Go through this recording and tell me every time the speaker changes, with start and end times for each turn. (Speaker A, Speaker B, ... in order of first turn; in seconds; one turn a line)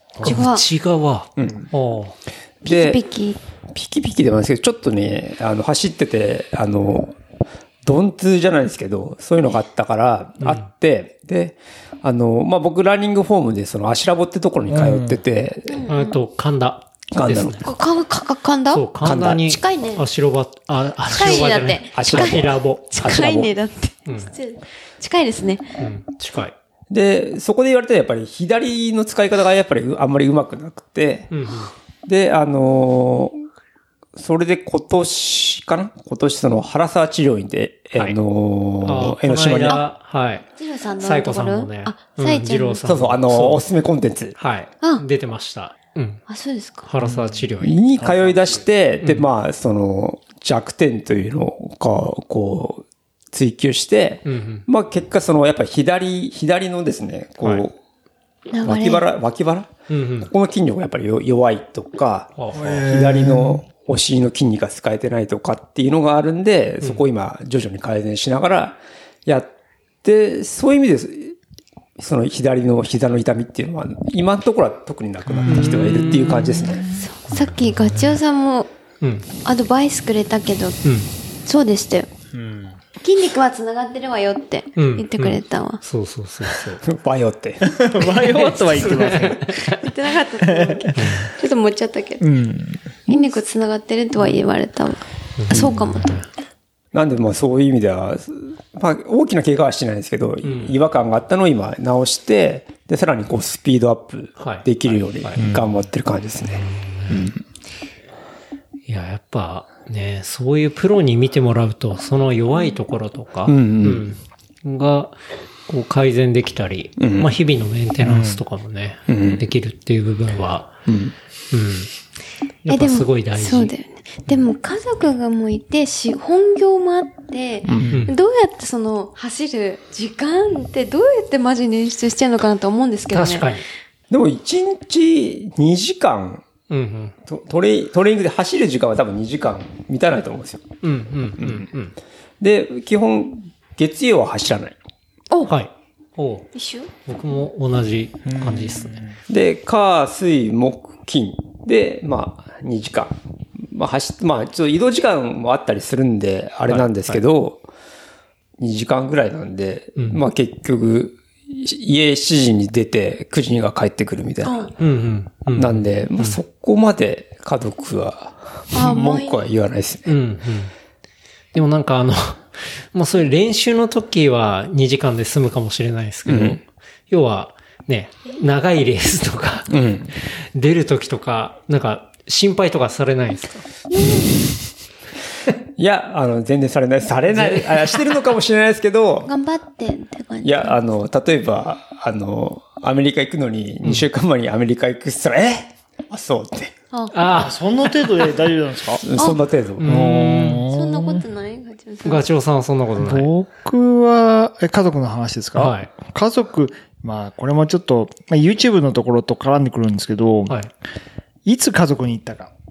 Speaker A: 0.2-2.1
Speaker B: 0.2-0.6
Speaker C: 1.4-1.7
Speaker C: 2.6-3.0
Speaker B: 2.6-3.4
Speaker C: 3.7-7.1
Speaker C: 7.8-15.9
Speaker D: 14.7-15.2
Speaker B: 15.7-16.2
Speaker A: 15.9-17.7
Speaker C: 17.1-17.7
Speaker B: 17.6-18.8
Speaker A: 18.7-22.9
Speaker C: 19.0-19.5
Speaker B: 19.4-20.0
Speaker B: 21.1-25.7
Speaker C: 21.9-23.5
Speaker A: 24.1-24.3
Speaker A: 25.8-26.5
Speaker C: 26.9-31.3
Speaker A: 31.3-31.7
Speaker C: 32.0-33.4
Speaker C: 34.1-39.8
Speaker A: 38.8-40.5
Speaker B: 40.5-42.8
Speaker A: 41.0-43.6
Speaker C: 42.8-44.4
Speaker A: 44.4-46.2
Speaker B: 46.3-46.9
Speaker A: 46.8-47.8
Speaker D: 47.0-47.4
Speaker C: 47.6-57.8
Speaker D: 48.0-48.6
Speaker A: 54.2-54.6
Speaker B: 58.5-59.0
Speaker C: 58.6-69.5
Speaker A: 59.9-60.3
Speaker A: 62.4-62.7
Speaker D: 62.5-63.6
Speaker C: 70.0-71.4
Speaker C: 72.0-77.0
Speaker D: 75.3-76.9
Speaker A: 75.4-76.5
Speaker B: 77.0-78.7
Speaker A: 77.3-78.2
Speaker A: 79.0-79.3
Speaker B: 79.4-80.8
Speaker A: 80.8-81.1
Speaker B: 81.5-82.1
Speaker D: 82.3-82.8
Speaker B: 83.0-85.8
Speaker A: 84.8-86.8
Speaker C: 86.8-87.8
Speaker D: 87.6-89.7
Speaker A: 88.0-89.8
Speaker B: 89.7-92.2
Speaker D: 90.5-91.1
Speaker A: 91.0-91.3
Speaker D: 92.2-93.0
Speaker B: 93.1-96.1
Speaker A: 95.4-96.2
Speaker C: 96.9-107.4
Speaker A: 100.4-100.7
Speaker A: 104.4-105.5
Speaker D: 105.4-105.7
Speaker A: 106.6-107.3
Speaker A: 108.9-115.2
Speaker C: 113.5-114.0
Speaker A: 115.7-120.7
Speaker C: 117.0-117.3
Speaker C: 118.1-118.4
Speaker C: 119.1-119.4
Speaker C: 120.8-121.1
Speaker A: 121.5-121.9
Speaker A: 122.6-123.7
Speaker B: 122.7-133.5
Speaker C: 127.7-128.0
Speaker D: 127.7-128.0
Speaker A: 127.8-128.1
Speaker A: 133.1-133.6
Speaker C: 134.1-136.4
Speaker A: 136.7-137.1
Speaker C: 137.2-140.7
Speaker A: 140.8-141.9
Speaker C: 141.4-141.7
Speaker C: 142.4-144.7
Speaker A: 145.5-146.5
Speaker B: 146.5-146.9
Speaker A: 147.1-149.0
Speaker D: 148.2-149.1
Speaker C: 149.3-157.6
Speaker A: 156.7-157.2
Speaker C: 158.6-164.7
Speaker B: 164.4-164.7
Speaker A: 164.8-166.4
Speaker C: 165.6-170.2
Speaker B: 168.7-169.4
Speaker A: 170.1-170.7
Speaker A: 171.5-179.8
Speaker C: 176.2-176.6
Speaker C: 179.7-180.1
Speaker A: 180.4-183.7
Speaker B: 183.9-184.2
Speaker C: 185.8-189.3
Speaker A: 187.3-188.2
Speaker B: 189.2-190.8
Speaker C: 190.4-196.7
Speaker A: 197.1-198.3
Speaker D: 197.3-199.0
Speaker C: 199.0-200.0
Speaker B: 199.2-199.4
Speaker A: 199.8-200.7
Speaker D: 199.8-201.2
Speaker B: 200.7-202.2
Speaker A: 202.0-203.3
Speaker D: 203.0-210.6
Speaker A: 205.5-205.9
Speaker D: 211.4-212.5